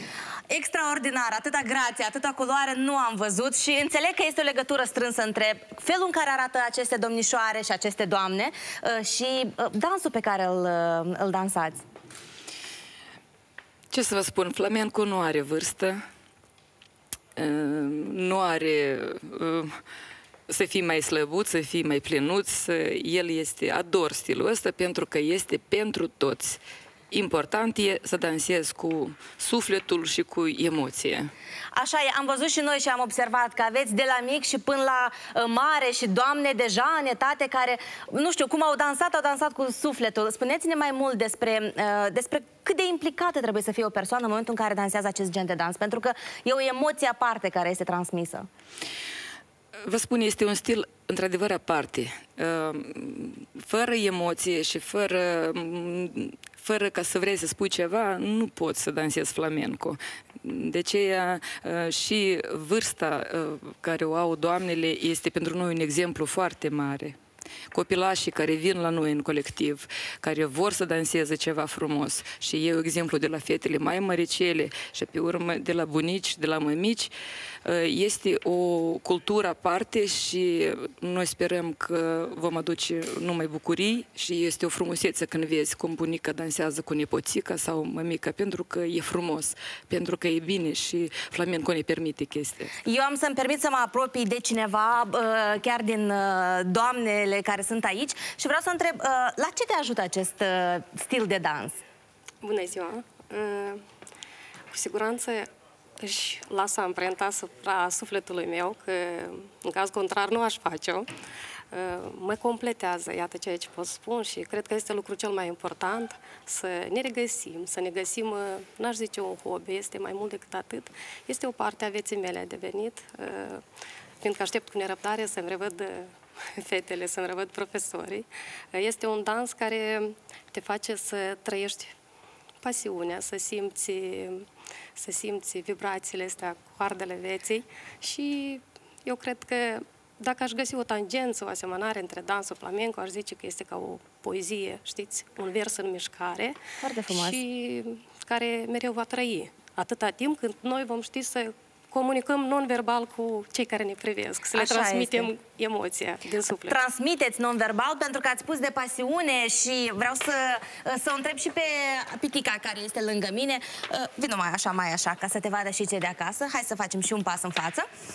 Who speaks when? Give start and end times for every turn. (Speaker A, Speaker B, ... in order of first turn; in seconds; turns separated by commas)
Speaker A: 0.5-11.8, Speaker B: 13.9-16.0, Speaker B: 17.4-19.7, Speaker B: 20.5-31.3, Speaker A: 31.7-48.5, Speaker B: 49.8-67.2, Speaker B: 67.7-77.1, Speaker B: 77.6-92.7, Speaker A: 92.8-101.8, Speaker C: 102.4-103.8, Speaker C: 104.7-105.5, Speaker C: 106.0-111.1, Speaker C: 111.7-123.6, Speaker C: 124.2-131.9, Speaker C: 132.6-156.8, Speaker A: 146.8-147.4, Speaker A: 154.5-155.3, Speaker A: 156.7-167.8